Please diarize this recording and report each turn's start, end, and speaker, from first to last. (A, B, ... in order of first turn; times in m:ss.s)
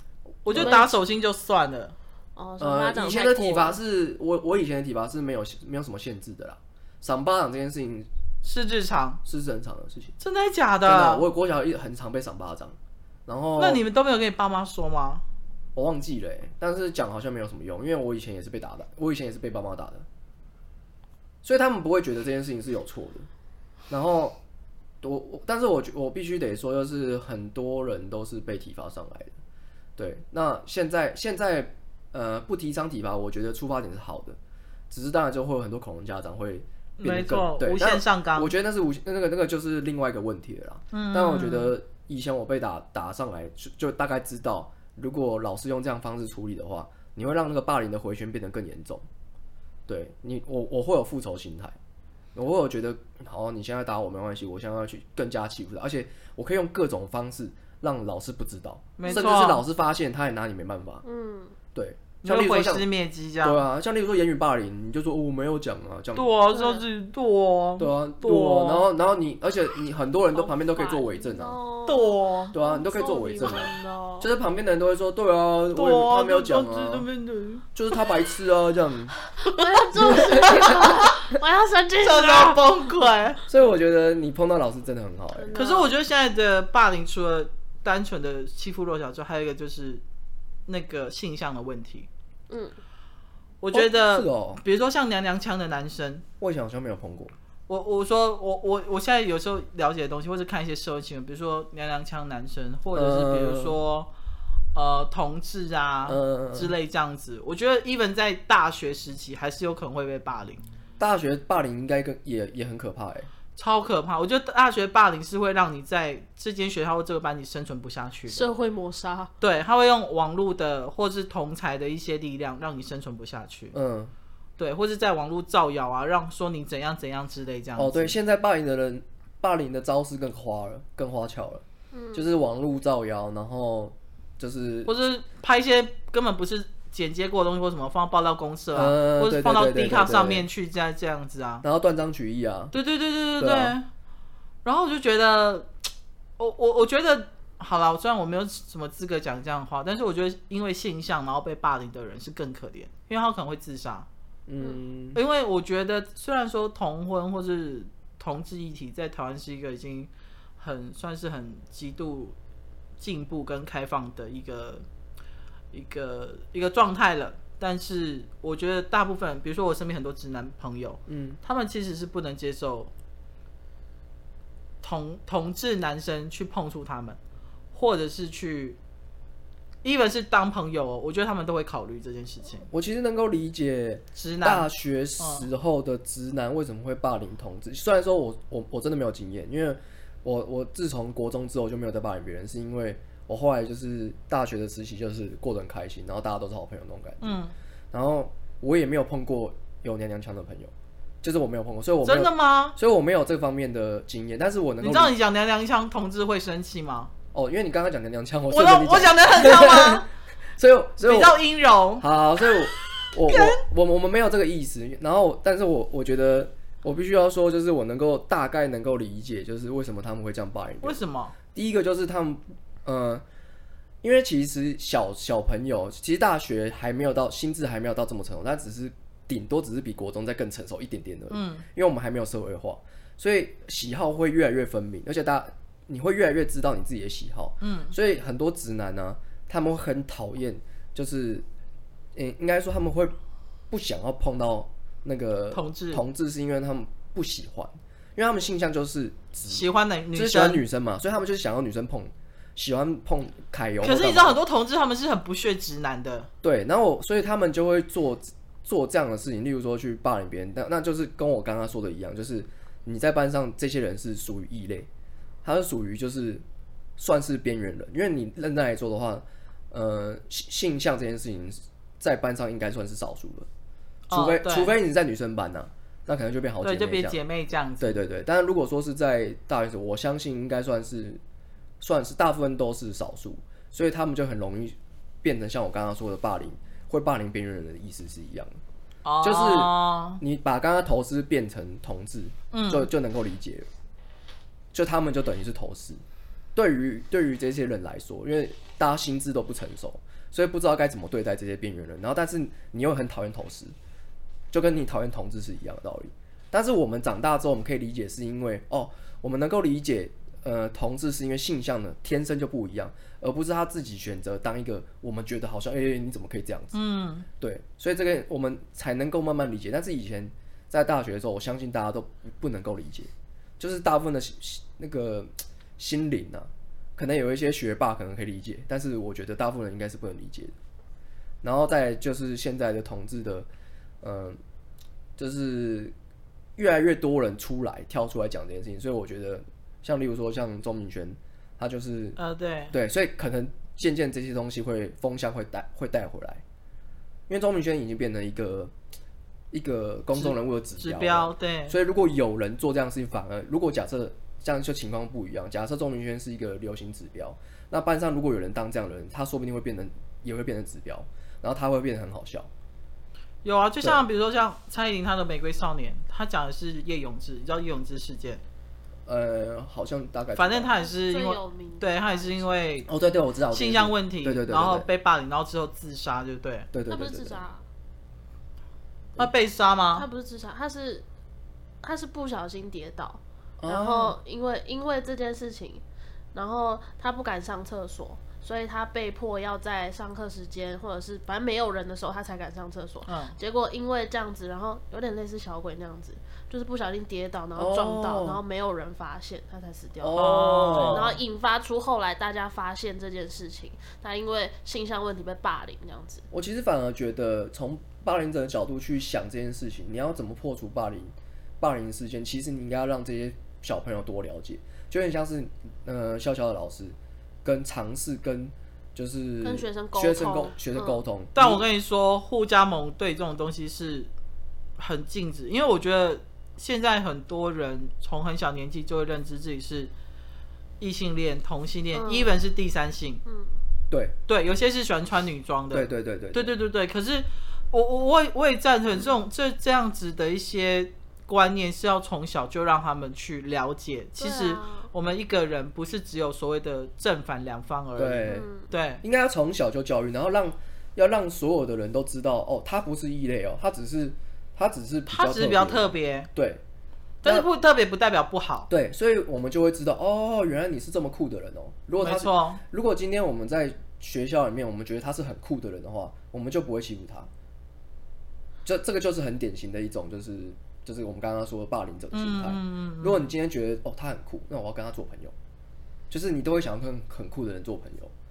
0:00.4-0:01.9 A
0:00.5-0:01.0 B
0:02.4-0:03.8 B
0:02.6-0:08.1 C
0:08.4-0:09.2 A
0:09.2-0:10.2 C
0:10.2-0:11.2 A
0:10.8-0:13.8 C
0:13.6-0:15.2 A
0:15.7-0:20.0 C
0:21.4-0:23.3 C
0:23.9-0:24.4 C
0:25.0-0:29.3 C
0:30.0-0:34.4 C
0:34.9-0:49.0 C
0:37.0-0:38.5 A
0:40.9-0:41.7 A
0:49.9-0:51.8 C
0:52.3-1:01.0 C
0:59.0-0:59.6 A
1:01.0-1:01.6 B
1:01.7-1:02.8 C
1:02.2-1:03.6 A
1:03.4-1:06.3 C
1:06.2-1:08.8 A
1:06.5-1:06.8 B
1:07.8-1:11.6 C
1:10.3-1:14.3 B
1:11.9-1:12.5 A
1:12.5-1:17.1 C
1:15.7-1:17.6 A
1:17.7-1:19.1 C
1:19.4-1:22.6 B
1:19.4-1:21.1 A
1:20.0-1:20.8 C
1:22.0-1:23.4 A
1:23.5-1:25.5 C
1:25.3-1:25.9 B
1:25.5-1:30.0 A
1:30.7-1:32.1 A
1:32.5-1:32.8 B
1:33.6-1:36.2 A
1:33.7-1:34.6 C
1:36.4-1:37.3 C
1:37.7-1:44.1 A
1:42.9-1:43.8 C
1:44.7-1:50.6 A
1:46.1-1:46.7 C
1:51.0-1:53.3 C
1:53.6-1:58.5 A
1:58.3-1:59.3 B
1:59.4-2:03.7 A
2:03.7-2:04.1 C
2:04.6-2:08.1 A
2:07.8-2:11.6 C
2:11.9-2:12.3 B
2:12.1-2:14.9 C
2:14.8-2:21.6 A
2:18.7-2:20.5 C
2:21.6-2:22.7 C
2:22.7-2:23.8 A
2:23.4-2:23.8 C
2:24.6-2:25.7 A
2:26.4-2:34.1 A
2:34.5-2:35.2 C
2:35.1-2:42.3 A
2:43.0-2:44.8 A
2:45.7-2:52.9 A
2:51.1-2:51.4 C
2:54.8-2:57.2 A
2:57.7-2:58.8 A
2:59.8-3:02.7 A
3:02.7-3:17.4 C
3:04.2-3:05.4 A
3:17.2-3:17.5 A
3:17.9-3:25.2 C
3:22.0-3:22.8 A
3:24.8-3:27.1 A
3:27.3-3:31.4 C
3:28.5-3:30.0 A
3:31.0-3:32.0 A
3:32.0-3:41.0 C
3:33.3-3:33.6 A
3:40.8-3:41.3 A
3:41.5-3:43.2 C
3:44.0-4:01.4 C
3:51.3-3:51.6 A
3:57.6-3:57.9 A
4:02.1-4:03.1 C
4:03.7-4:14.4 C
4:05.5-4:06.0 A
4:09.5-4:10.6 A
4:13.8-4:16.3 A
4:16.4-4:24.9 C
4:25.4-4:26.4 C
4:27.0-4:33.5 C
4:34.1-4:34.7 A
4:34.1-4:37.2 C
4:36.6-4:38.0 A
4:37.8-4:41.2 C
4:41.8-4:48.5 C
4:49.0-4:50.2 A
4:49.2-4:53.7 C
4:52.5-4:52.9 A
4:54.7-4:56.0 C
4:56.5-5:03.7 C
5:04.5-5:16.8 C
5:16.7-5:17.3 A
5:17.4-5:30.5 C
5:31.4-5:33.5 C
5:34.0-5:34.4 C
5:35.2-5:35.9 C
5:36.6-5:42.2 C
5:42.2-5:42.7 A
5:42.7-5:46.4 C
5:47.3-5:48.7 C
5:49.5-6:02.5 C
5:50.1-5:51.7 A
6:03.4-6:08.4 A
6:09.0-6:10.7 C
6:10.3-6:12.9 A
6:10.9-6:12.6 B
6:12.9-6:14.8 C
6:13.5-6:16.7 A
6:16.7-6:17.4 C
6:16.9-6:17.6 B
6:19.2-6:20.0 A
6:19.9-6:21.0 B
6:21.8-6:25.8 B
6:23.6-6:24.2 C
6:26.3-6:46.2 B
6:33.1-6:33.3 A
6:37.5-6:38.4 C
6:40.0-6:41.2 C
6:40.1-6:41.2 A
6:46.3-7:01.6 C
6:59.4-7:01.0 B
7:01.3-7:04.1 A
7:04.8-7:09.9 A
7:10.8-7:13.2 A
7:11.9-7:12.4 B
7:13.2-7:13.5 B
7:13.9-7:14.2 C
7:14.3-7:29.0 A
7:15.7-7:16.5 C
7:24.2-7:24.9 B
7:28.0-7:28.5 C
7:28.3-7:28.7 B
7:29.0-7:36.6 C
7:35.1-7:36.3 A
7:37.2-7:37.5 C
7:37.2-7:38.7 A
7:38.7-7:47.3 C
7:42.0-7:42.6 A
7:48.6-7:55.3 C
7:52.1-7:53.3 A
7:56.1-7:58.1 C